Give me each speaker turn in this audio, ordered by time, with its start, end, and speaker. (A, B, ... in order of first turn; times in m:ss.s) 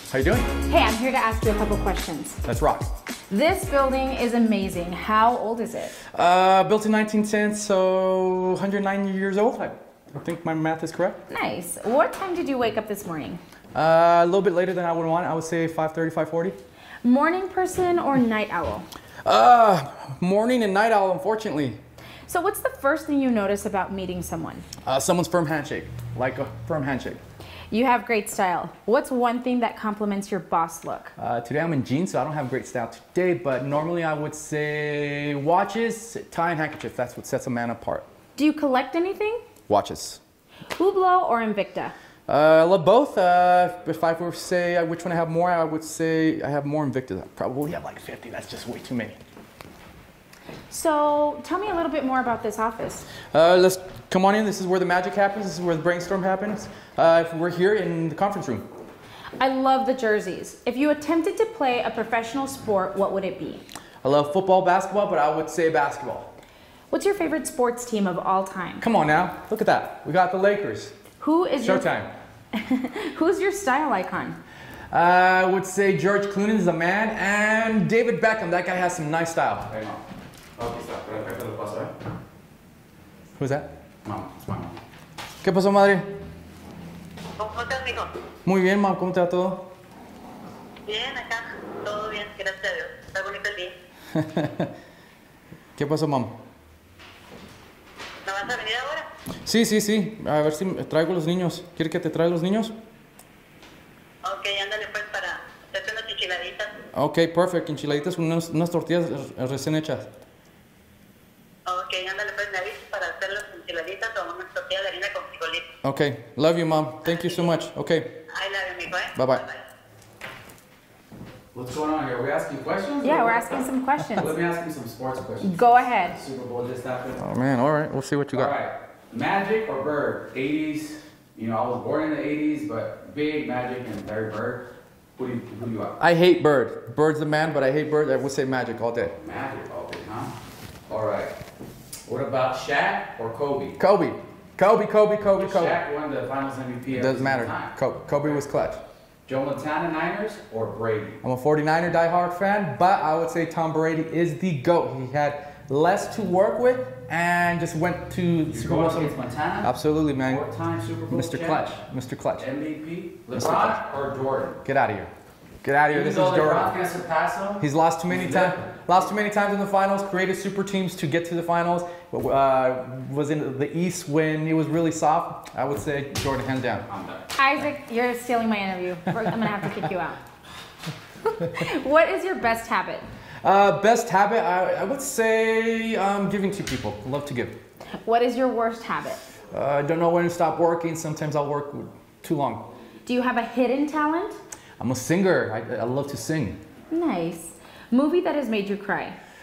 0:00.1-0:00.5 A
0:00.6-0:02.4 B
0:02.4-0:02.9 A
0:03.3-0:05.9 B
0:06.1-0:11.2 A
0:11.3-0:13.4 B
0:13.7-0:16.6 A
0:17.0-0:18.9 B
0:19.2-0:21.8 A
0:22.3-0:24.6 B
0:24.8-0:27.2 A
0:27.7-0:31.1 B
0:31.2-0:38.0 A
0:38.3-0:39.4 B
0:39.7-0:40.2 A
0:40.7-0:41.9 B
0:42.3-0:49.2 A
0:50.7-0:53.1 B
0:53.3-0:58.6 A
0:59.4-1:03.6 B
1:04.0-1:06.3 A
1:06.9-1:08.8 B
1:08.8-1:10.9 A
1:11.2-1:11.9 B
1:11.6-1:12.1 A
1:12.5-1:14.4 B
1:14.9-1:19.7 A
1:19.7-1:20.0 C
1:20.6-1:21.9 C
1:23.4-1:23.7 A
1:24.0-1:24.8 C
1:25.4-1:26.1 A
1:27.4-1:28.1 D
1:28.4-1:29.7 A
1:30.8-1:33.7 D
1:34.1-1:34.7 A
1:35.8-1:36.3 A
1:38.2-1:39.1 D
1:39.4-1:42.7 A
1:44.2-1:46.7 D
1:46.9-1:50.1 A
1:51.7-1:55.6 D
1:55.8-1:58.1 A
1:58.3-1:59.6 D
1:59.2-1:59.4 A
2:01.5-2:03.4 C
2:03.0-2:04.3 B
2:04.1-2:07.2 C
2:05.4-2:06.2 B
2:07.2-2:08.6 A
2:08.3-2:14.6 C
2:15.2-2:16.0 C
2:16.0-2:19.1 A
2:19.2-2:20.3 C
2:20.9-2:21.3 C
2:22.0-2:23.8 C
2:23.8-2:25.8 A
2:25.4-2:27.7 C
2:26.9-2:28.8 A
2:29.2-2:31.2 C
2:31.2-2:40.4 A
2:38.5-2:41.8 C
2:41.1-2:42.4 A
2:42.4-2:44.6 C
2:43.3-2:43.8 A
2:44.6-2:45.1 A
2:45.6-2:46.8 A
2:45.9-2:48.5 C
2:47.6-2:56.8 A
2:56.9-2:57.2 C
2:57.4-3:00.2 B
3:01.3-3:03.0 B
3:03.4-3:07.5 A
3:08.0-3:09.2 B
3:09.5-3:12.7 A
3:13.0-3:14.4 B
3:14.8-3:16.6 A
3:16.9-3:19.2 B